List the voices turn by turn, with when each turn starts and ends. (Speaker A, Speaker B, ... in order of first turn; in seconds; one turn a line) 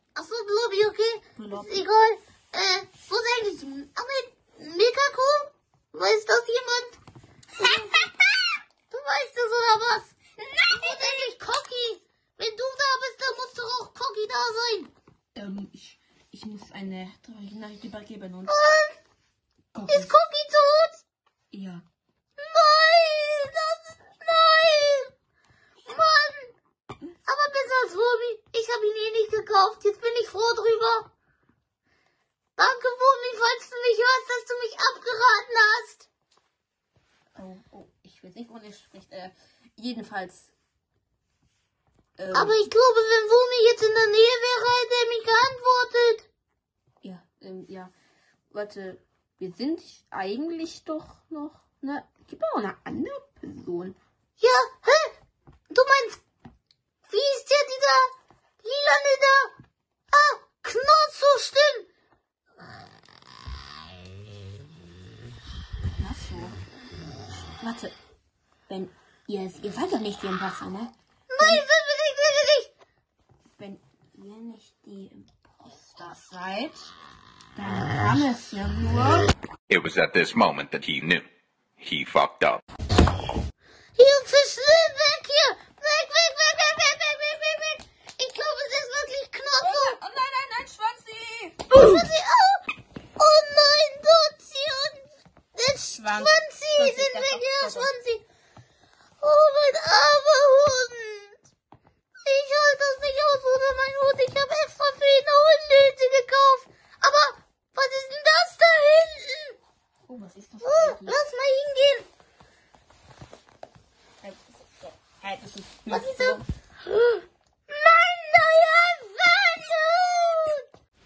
Speaker A: 0.1-7.0
Speaker B: 1.4-1.8
Speaker B: 7.6-7.9
Speaker A: 7.6-8.0
Speaker A: 8.9-10.2
Speaker B: 10.6-11.3
Speaker A: 10.7-14.9
Speaker B: 15.3-18.5
Speaker A: 18.5-18.9
Speaker B: 19.7-20.1
Speaker A: 19.9-21.0
Speaker B: 21.5-21.8
Speaker A: 22.4-25.1
Speaker A: 25.9-26.5
Speaker A: 27.3-31.1
Speaker A: 32.5-36.1
Speaker B: 37.4-40.5
Speaker B: 42.2-42.6
Speaker A: 42.3-46.3
Speaker B: 47.0-47.9
Speaker B: 48.5-54.0
Speaker A: 54.4-55.1
Speaker A: 55.7-56.2
Speaker A: 57.1-58.1
Speaker A: 58.6-59.5
Speaker A: 60.1-61.9
Speaker B: 66.0-66.6
Speaker B: 67.6-68.0
Speaker B: 68.7-71.6
Speaker A: 71.3-72.7
Speaker B: 73.6-76.9
Speaker B: 77.5-79.3
Speaker C: 79.7-81.2
Speaker C: 81.8-82.6
Speaker A: 84.0-90.0
Speaker B: 89.6-91.9
Speaker A: 91.7-92.6
Speaker A: 93.2-95.0
Speaker A: 95.5-98.2
Speaker B: 95.9-97.9
Speaker A: 99.2-101.4
Speaker A: 102.2-109.6
Speaker B: 110.1-111.2
Speaker A: 110.6-112.1
Speaker B: 114.2-116.4
Speaker A: 115.9-116.4
Speaker A: 117.7-120.6